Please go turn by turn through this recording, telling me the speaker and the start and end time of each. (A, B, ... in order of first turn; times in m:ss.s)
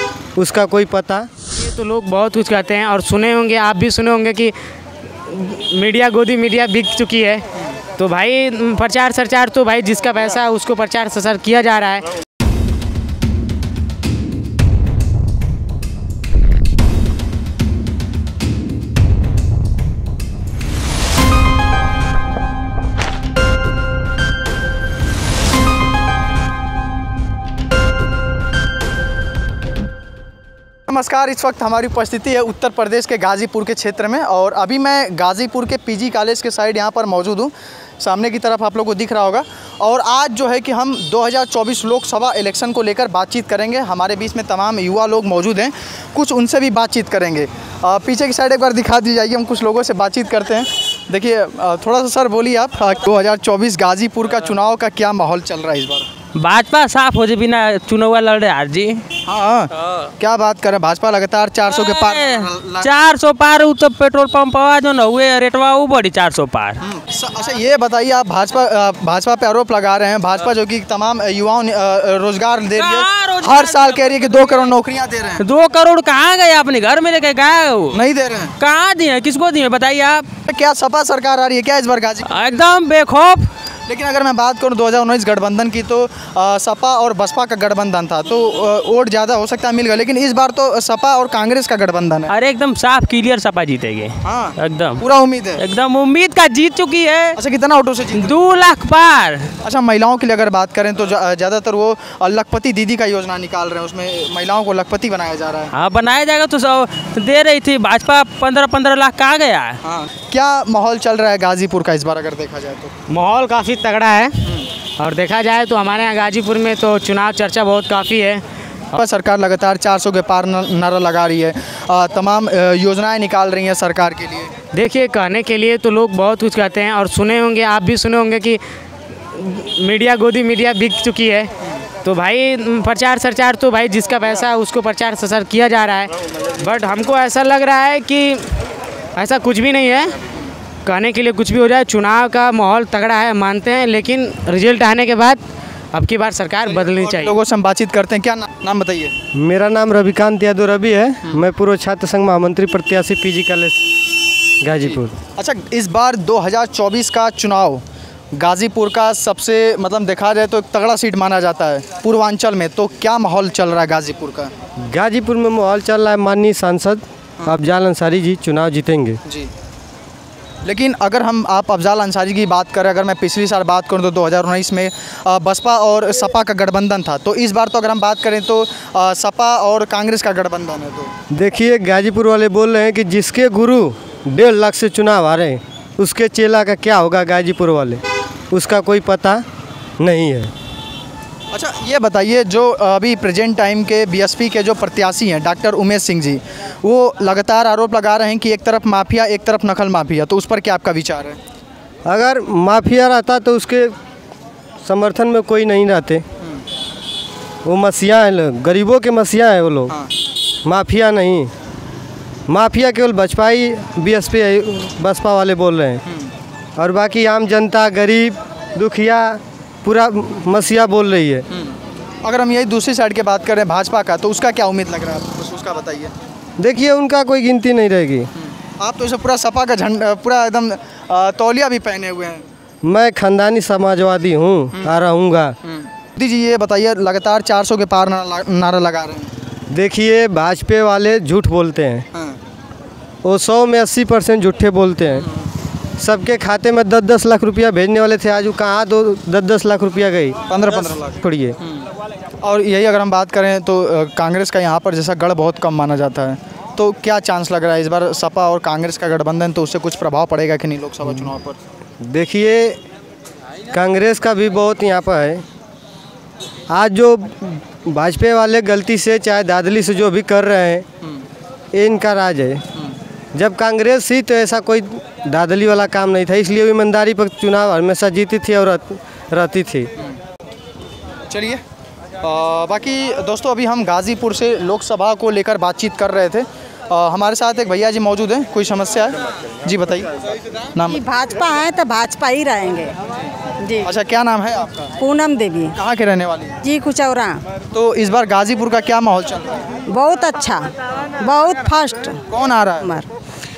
0:00.4-0:01.3 A
0:01.5-0:04.5 B
0:05.3-0:07.4 B
0:08.0-0:12.1 B
0:30.9-0:56.1 C
0:56.4-0:59.0 D
0:59.3-1:02.9 C
1:01.7-1:06.8 D
1:06.8-1:15.4 C
1:12.8-1:14.7 D
1:15.4-1:18.0 D
1:17.9-1:18.5 C
1:18.6-1:20.2 D
1:20.5-1:22.4 C
1:22.3-1:23.5 D
1:23.9-1:32.3 C
1:32.3-1:35.0 D
1:34.2-1:35.6 C
1:35.6-1:37.4 D
1:37.4-1:38.3 C
1:38.2-1:39.5 D
1:39.6-1:45.7 C
1:45.7-1:49.8 D
1:49.8-1:52.9 C
1:53.1-1:58.4 B
1:58.9-2:04.5 C
2:04.7-2:08.6 B
2:09.3-2:11.5 B
2:12.0-2:18.5 B
2:19.2-2:20.2 B
2:20.8-2:25.4 B
2:25.9-2:27.4 B
2:26.7-2:29.2 C
2:29.3-2:34.0 A
2:34.6-2:35.1 A
2:34.8-2:37.8 C
2:38.4-2:44.5 C
2:44.8-2:49.2 A
2:49.2-2:49.5 C
2:50.6-3:01.1 C
3:01.3-3:09.4 A
3:10.0-3:10.5 A
3:11.5-3:21.4 C
3:22.1-3:24.0 A
3:24.8-3:26.2 A
3:27.6-3:29.9 A
3:30.6-3:31.5 A
3:32.5-3:36.0 A
3:36.1-3:36.3 C
3:36.8-3:41.4 A
3:41.5-3:46.1 C
3:46.6-3:48.3 A
3:48.4-3:52.4 C
3:52.8-3:55.6 A
3:55.7-3:59.3 C
3:59.7-4:02.1 A
4:03.2-4:05.3 A
4:06.0-4:10.5 A
4:10.5-4:11.9 C
4:11.2-4:11.6 A
4:12.4-4:21.6 C
4:22.0-4:22.8 A
4:23.7-4:25.4 A
4:26.7-4:30.9 A
4:31.7-4:32.6 A
4:33.3-4:39.9 A
4:41.3-4:41.6 C
4:42.2-4:50.1 C
4:50.8-4:51.0 C
4:50.9-4:53.0 E
4:53.6-4:53.9 E
4:53.8-4:55.0 C
4:55.0-4:55.8 E
4:55.8-4:56.6 C
4:56.6-4:57.4 E
4:57.7-4:59.8 C
4:59.9-5:02.2 E
5:02.3-5:02.9 C
5:02.8-5:03.1 E